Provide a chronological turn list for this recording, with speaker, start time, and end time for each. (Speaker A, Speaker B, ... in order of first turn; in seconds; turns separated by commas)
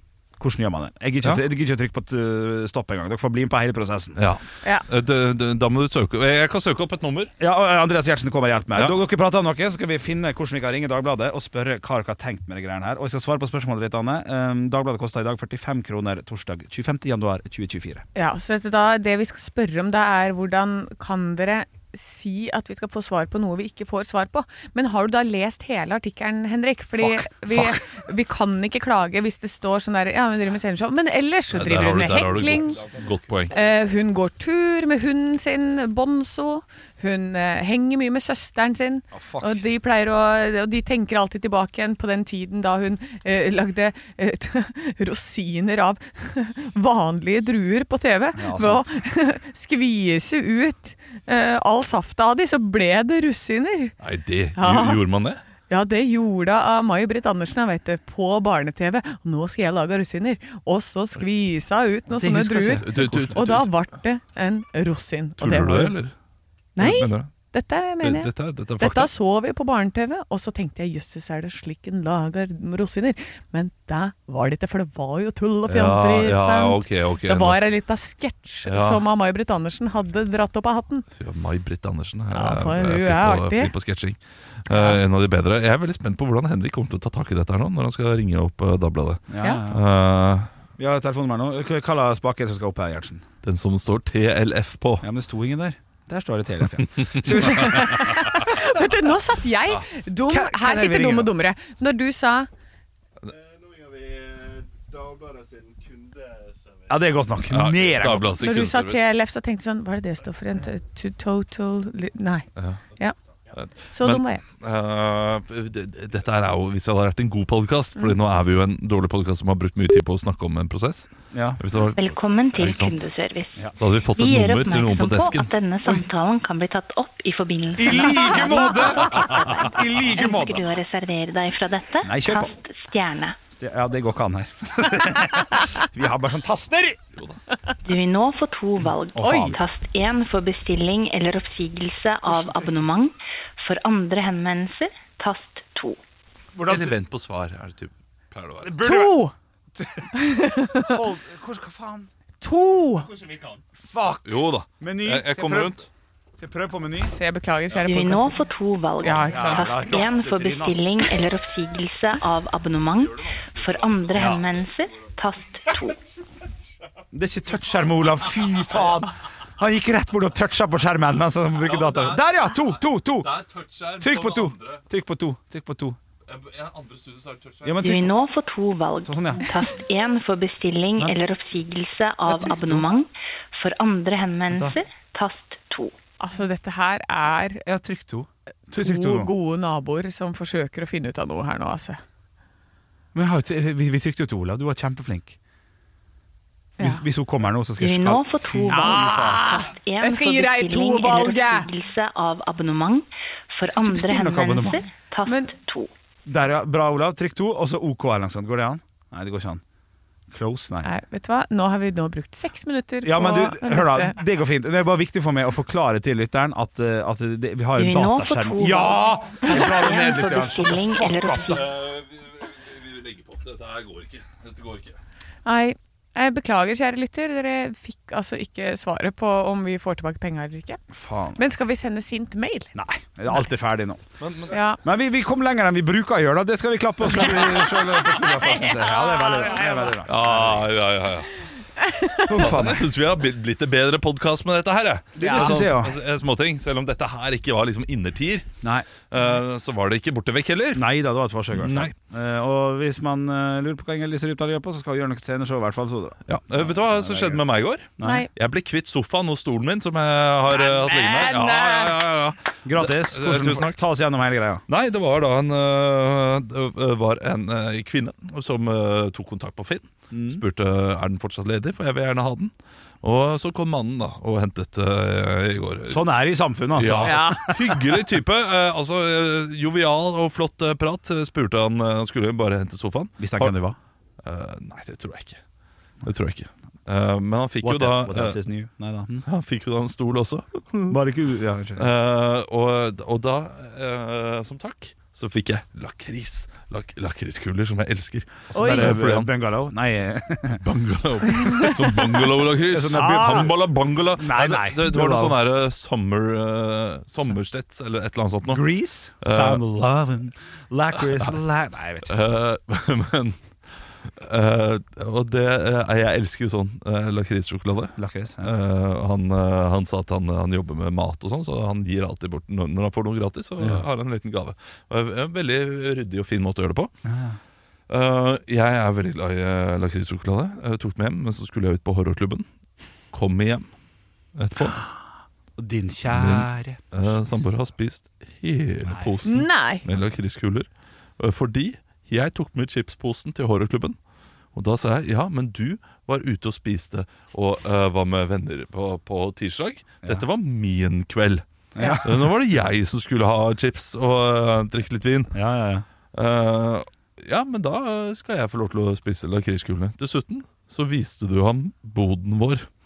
Speaker A: 0.4-4.2, Speaker B: 4.2-7.3, Speaker A: 7.4-18.0, Speaker B: 8.7-9.0, Speaker C: 18.1-32.8, Speaker A: 27.0-27.8, Speaker B: 31.5-33.5, Speaker C: 33.5-53.9, Speaker A: 39.1-39.6, Speaker A: 48.3-48.9, Speaker B: 54.0-55.4, Speaker C: 54.5-55.0, Speaker C: 55.7-65.9, Speaker A: 62.1-63.4, Speaker B: 62.8-63.7, Speaker B: 65.4-66.1, Speaker C: 66.8-81.1, Speaker B: 66.8-67.3, Speaker B: 68.0-69.1, Speaker B: 75.7-77.6, Speaker B: 78.7-79.0, Speaker B: 81.2-90.5, Speaker C: 82.3-83.7, Speaker C: 84.7-85.0, Speaker A: 89.3-89.8, Speaker A: 90.8-93.2, Speaker B: 93.4-95.0, Speaker A: 95.0-98.4, Speaker B: 97.0-97.9, Speaker C: 97.3-102.5, Speaker A: 100.3-101.3, Speaker D: 103.3-106.8, Speaker A: 106.9-108.3, Speaker B: 107.5-109.0, Speaker C: 108.4-112.5, Speaker B: 112.5-112.8, Speaker B: 113.5-123.1, Speaker C: 113.9-114.4, Speaker A: 121.3-121.6, Speaker E: 122.0-133.4, Speaker B: 123.8-125.5, Speaker A: 127.8-130.7, Speaker C: 128.3-128.6, Speaker A: 132.0-132.5, Speaker A: 133.5-137.0, Speaker E: 137.8-146.0, Speaker A: 139.1-139.6, Speaker C: 139.2-139.5, Speaker A: 142.2-142.8, Speaker A: 146.5-146.9, Speaker B: 146.7-148.7, Speaker A: 148.6-149.1, Speaker C: 148.8-149.3, Speaker A: 149.8-150.1, Speaker C: 150.1-151.0, Speaker A: 150.8-152.1, Speaker C: 152.4-153.1, Speaker D: 153.2-153.6, Speaker A: 153.7-155.8, Speaker B: 154.2-155.9, Speaker A: 156.4-157.2, Speaker C: 157.0-158.5, Speaker E: 157.8-166.0, Speaker C: 159.0-159.9, Speaker A: 159.2-161.1, Speaker B: 163.6-164.6, Speaker A: 164.1-164.4, Speaker A: 167.1-173.3, Speaker B: 171.6-172.7, Speaker B: 173.2-174.8, Speaker A: 174.0-176.0, Speaker B: 176.3-177.8, Speaker A: 177.6-178.1, Speaker E: 177.8-185.9, Speaker A: 179.1-179.4, Speaker A: 182.3-182.9, Speaker A: 184.5-184.8, Speaker C: 186.2-187.6, Speaker A: 187.6-189.3, Speaker C: 188.7-192.0, Speaker A: 193.1-195.4, Speaker C: 196.8-197.0, Speaker A: 196.8-199.6, Speaker E: 197.8-205.9, Speaker C: 198.7-201.7, Speaker A: 203.7-204.8, Speaker C: 205.2-205.5, Speaker A: 206.2-209.6, Speaker A: 210.3-210.9, Speaker C: 210.8-214.2, Speaker A: 213.0-221.6, Speaker E: 217.8-221.6, Speaker B: 221.4-225.0, Speaker C: 225.4-230.8, Speaker A: 230.9-231.4, Speaker C: 231.3-232.7, Speaker A: 232.7-234.0, Speaker B: 234.2-234.6, Speaker C: 234.5-234.8, Speaker A: 234.8-240.7, Speaker B: 237.1-238.0, Speaker C: 237.9-240.0, Speaker B: 240.0-241.4, Speaker C: 241.8-242.7, Speaker A: 242.3-242.9, Speaker B: 242.3-248.5, Speaker A: 245.2-246.0, Speaker C: 245.2-245.7, Speaker A: 248.6-248.9, Speaker B: 249.1-250.9, Speaker A: 250.7-257.4, Speaker B: 251.5-251.9, Speaker B: 256.3-263.8, Speaker A: 258.0-258.3, Speaker C: 258.0-258.3, Speaker C: 260.5-262.0, Speaker A: 262.6-264.6, Speaker B: 264.7-276.0, Speaker A: 270.1-270.4, Speaker A: 275.9-278.0, Speaker B: 276.8-283.5, Speaker C: 277.0-277.7, Speaker A: 283.2-283.8, Speaker B: 284.2-285.4, Speaker B: 286.0-288.4, Speaker A: 287.6-289.2, Speaker B: 289.2-291.0, Speaker A: 290.9-291.9, Speaker B: 291.8-299.3, Speaker A: 298.5-300.6, Speaker C: 298.5-299.0, Speaker B: 300.6-308.6, Speaker C: 301.4-301.8, Speaker A: 302.6-303.5, Speaker A: 304.1-305.4, Speaker A: 308.5-312.1, Speaker B: 309.2-309.6, Speaker B: 312.0-326.9, Speaker A: 317.9-318.5, Speaker A: 323.6-323.9, Speaker A: 327.0-327.4, Speaker B: 327.9-332.4, Speaker B: 333.1-333.7, Speaker B: 334.3-334.8, Speaker A: 335.6-337.5, Speaker B: 336.1-340.7, Speaker A: 338.9-339.2, Speaker C: 339.2-339.8, Speaker B: 341.2-343.9, Speaker B: 344.5-351.4, Speaker A: 351.7-352.3, Speaker C: 351.8-352.0, Speaker B: 352.0-355.4, Speaker A: 355.3-355.9, Speaker B: 356.1-362.7